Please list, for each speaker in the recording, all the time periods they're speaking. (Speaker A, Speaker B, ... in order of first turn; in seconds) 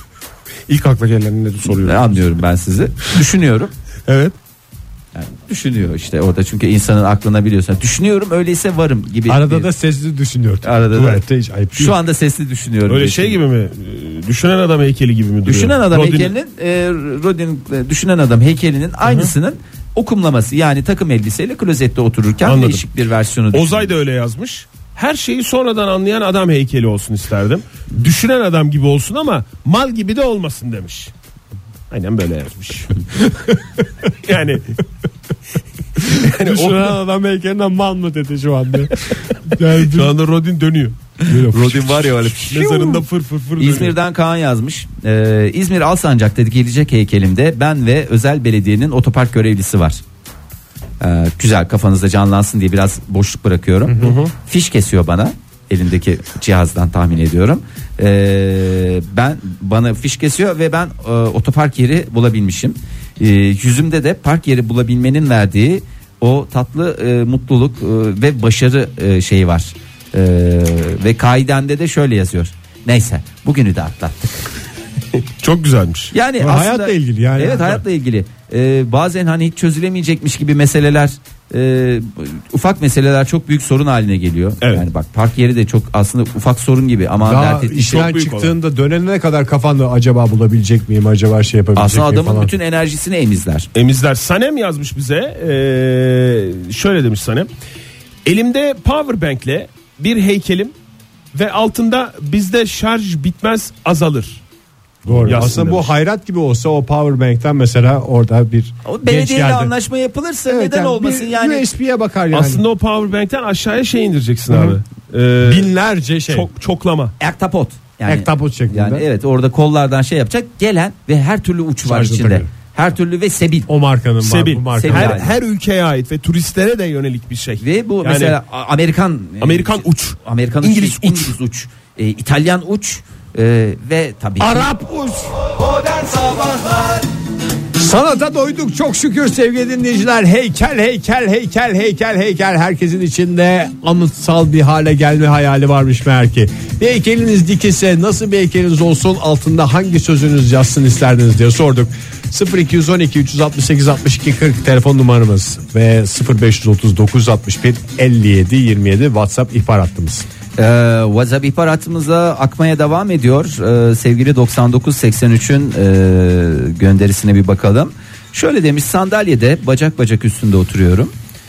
Speaker A: 0.7-2.2, 4.1-4.3, 12.9-16.3, 19.1-19.3, 22.4-22.8, 23.5-31.1, 31.9-33.1, 34.1-34.8, 36.0-36.9, 39.8-41.0, 42.2-44.0, 54.0-54.3, 75.2-76.1, 87.8-88.5, 93.8-97.5, 98.2-100.7, 101.3-104.4, 105.2-105.9, 112.3-115.7, 116.3-117.1, 124.2-128.4, 129.4-131.3
Speaker B: 1.7-3.7, 5.1-9.7, 10.6-11.2, 11.8-13.4, 15.4-23.9, 41.2-43.0, 43.6-50.0, 51.0-74.3, 76.1-88.2, 91.8-93.7, 105.1-105.6, 108.8-111.7, 117.2-123.7, 124.7-125.3, 127.6-134.7, 160.6-171.1
Speaker C: 9.3-12.0, 36.3-40.1, 41.3-42.1, 76.4-77.8, 87.2-92.5, 105.0-109.7, 110.5-112.6, 114.5-114.8, 115.4-116.5, 118.1-119.0, 121.8-122.5, 123.7-125.2, 134.4-136.9, 137.8-160.3